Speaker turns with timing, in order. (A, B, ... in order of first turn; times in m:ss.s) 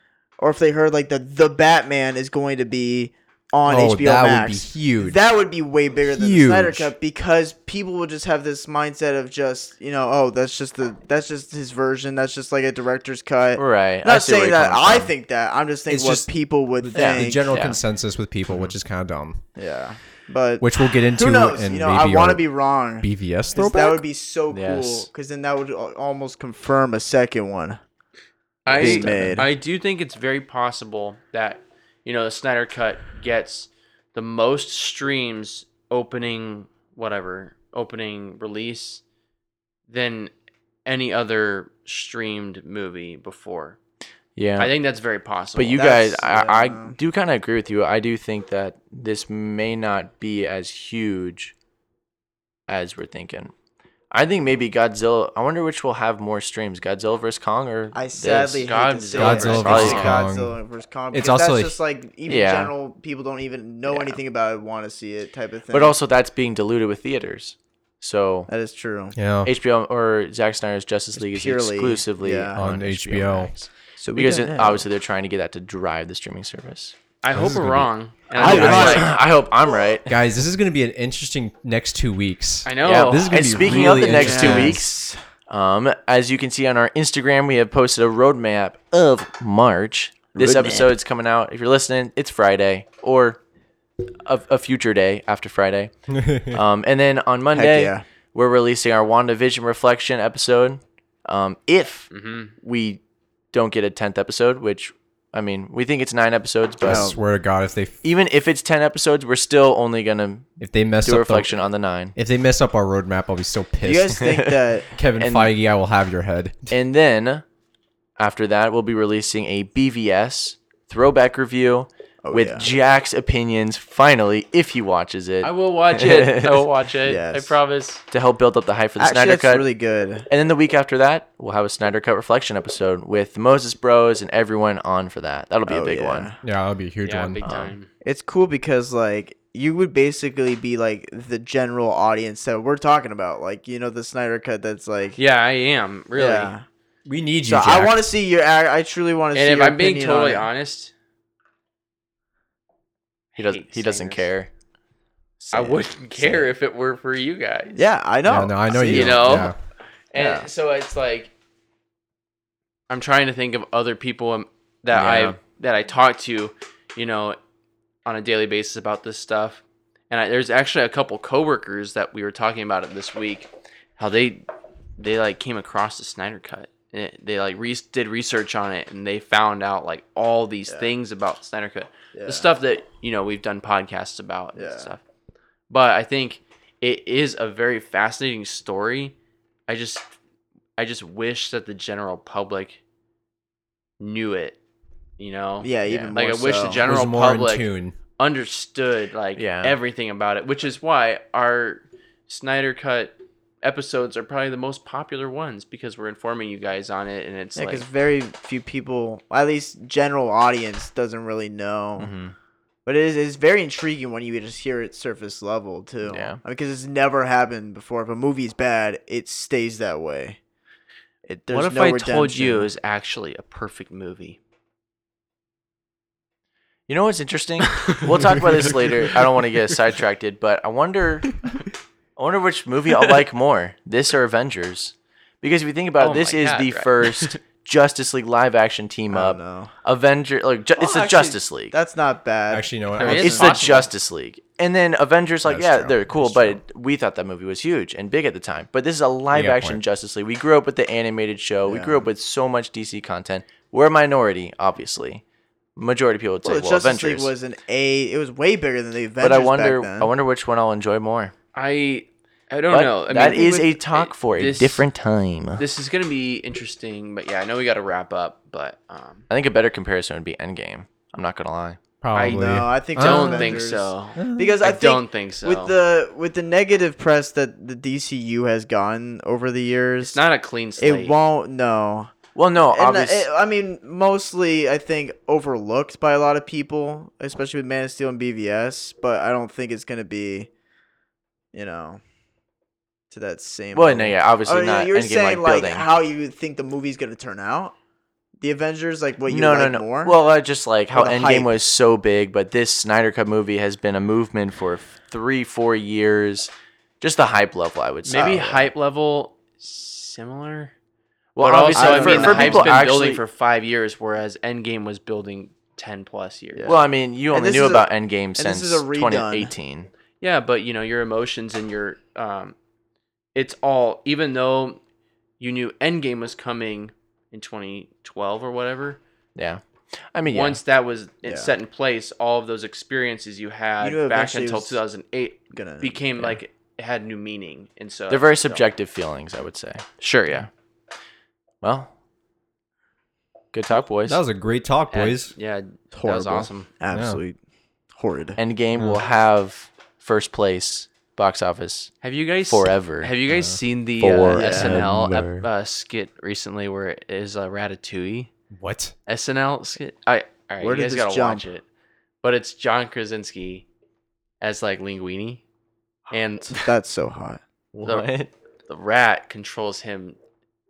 0:00.4-0:17.6 A
0:03.7-0:05.2 B
0:06.1-0:06.9 B
0:13.6-0:15.1 C
0:15.9-0:16.3 B
0:16.8-0:19.4 B
0:16.9-0:17.8 C
0:19.6-0:27.8 A
0:20.6-0:22.5 B
0:23.0-0:24.0 B
0:24.5-0:25.1 C
0:28.7-0:39.0 D
0:28.7-0:29.5 A
0:28.7-0:29.5 B
0:39.9-0:40.3 D
0:40.9-0:43.8 D
0:44.4-0:44.7 C
0:44.6-0:46.0 D
0:45.6-0:51.5 C
0:45.8-0:47.0 A
0:52.7-0:53.5 C
0:54.1-1:00.2 C
0:57.9-1:06.0 A
0:58.6-1:00.2 D
0:59.2-1:00.6 B
1:01.1-1:01.8 B
1:02.3-1:02.7 C
1:03.9-1:04.2 C
1:05.7-1:08.5 C
1:08.5-1:09.2 A
1:09.2-1:09.5 B
1:09.4-1:17.0 C
1:11.2-1:12.6 A
1:12.6-1:13.5 B
1:14.0-1:14.9 A
1:17.2-1:19.2 D
1:17.3-1:19.0 B
1:18.4-1:19.9 A
1:18.4-1:20.1 C
1:20.1-1:24.8 B
1:22.7-1:24.4 D
1:22.8-1:25.0 C
1:23.7-1:25.2 A
1:25.5-1:33.4 C
1:30.4-1:30.9 A
1:34.2-1:35.9 C
1:36.1-1:36.6 B
1:36.5-1:43.0 C
1:37.5-1:38.0 A
1:42.1-1:42.5 D
1:43.5-1:47.2 C
1:46.8-1:48.0 B
1:46.9-1:47.2 A
1:48.0-1:50.5 C
1:50.6-1:51.5 B
1:51.0-1:52.2 C
1:52.2-1:54.3 B
1:53.8-1:54.9 A
1:54.2-1:54.6 C
1:54.9-1:56.7 B
1:55.2-1:55.5 C
1:56.7-1:57.4 C
1:58.2-2:06.6 C
2:02.2-2:02.7 A
2:05.4-2:08.0 D
2:07.0-2:07.6 A
2:08.1-2:09.7 C
2:09.0-2:10.3 A
2:10.3-2:16.3 C
2:15.6-2:16.4 A
2:16.4-2:17.5 B
2:17.0-2:17.9 D
2:17.4-2:17.7 C
2:18.0-2:25.2 A
2:25.2-2:26.5 D
2:26.2-2:26.6 A
2:27.1-2:28.1 B
2:27.5-2:30.5 A
2:29.3-2:30.9 D
2:33.4-2:34.3 D
2:33.4-2:34.5 C
2:35.4-2:36.5 C
2:35.5-2:37.9 D
2:37.8-2:39.5 A
2:38.3-2:39.6 B
2:38.8-2:39.6 D
2:40.1-2:41.3 D
2:40.2-2:40.5 A
2:42.9-2:47.4 D
2:44.9-2:45.4 C
2:48.0-2:54.5 D
2:55.0-3:05.0 D
3:02.2-3:02.5 A
3:04.6-3:04.9 A
3:05.7-3:09.2 D
3:09.7-3:10.1 D
3:10.8-3:12.8 D
3:14.0-3:14.6 D
3:15.2-3:17.7 D
3:15.6-3:16.8 A
3:16.8-3:18.0 B
3:18.2-3:27.8 D
3:19.4-3:19.8 C
3:27.6-3:32.1 A
3:32.0-3:32.4 C
3:32.9-3:40.4 A
3:36.0-3:36.4 C
3:41.3-3:42.7 A
3:41.5-3:44.4 D
3:46.9-3:51.3 C
3:47.7-3:48.0 D
3:52.2-4:01.8 C
3:56.0-3:57.4 D
3:59.1-3:59.7 A
4:00.8-4:03.7 A
4:02.5-4:03.3 B
4:03.0-4:03.9 D
4:03.1-4:15.2 C
4:05.5-4:06.6 B
4:09.3-4:09.8 B
4:11.7-4:12.1 A
4:15.8-4:17.3 C
4:16.4-4:20.1 A
4:19.2-4:21.3 C
4:21.6-4:24.8 D
4:22.7-4:25.6 C
4:25.6-4:29.2 D
4:29.3-4:31.8 C
4:32.0-4:33.6 B
4:32.1-4:35.8 D
4:32.2-4:40.2 A
4:34.2-4:34.6 B
4:40.0-4:41.2 D
4:40.8-4:42.1 A
4:42.4-4:43.3 C
4:42.7-4:50.5 A
4:51.5-4:52.0 A
4:53.1-4:57.8 A
4:53.7-4:55.9 C
4:58.4-5:00.2 A
4:59.3-5:08.7 C
5:00.9-5:01.5 A
5:08.1-5:10.7 D
5:11.4-5:13.2 C
5:11.4-5:16.8 D
5:11.7-5:12.9 A
5:16.6-5:19.5 A
5:16.7-5:19.9 C
5:20.2-5:22.6 D
5:23.4-5:24.8 D
5:25.4-5:29.0 D
5:29.4-5:30.6 C
5:30.3-5:38.6 D
5:31.3-5:31.6 A
5:33.8-5:34.8 A
5:35.5-5:36.0 A
5:38.1-5:40.5 C
5:40.0-5:40.5 D
5:41.6-5:41.9 C
5:43.5-5:44.2 C
5:44.0-5:45.3 B
5:44.9-5:46.7 D
5:45.9-5:47.4 A
5:46.9-5:47.2 B
5:47.9-5:48.4 A
5:48.4-5:52.0 C
5:52.0-5:58.3 D
5:52.5-5:53.1 C
5:53.3-5:53.6 B
5:54.0-5:55.5 C
5:54.3-5:54.8 A
5:58.5-5:58.9 B
5:59.1-6:01.6 D
6:00.6-6:01.5 A
6:02.2-6:03.6 D
6:04.4-6:05.4 D
6:06.1-6:06.7 D
6:06.5-6:07.4 A
6:07.8-6:08.1 D
6:07.8-6:08.3 C
6:08.7-6:10.2 D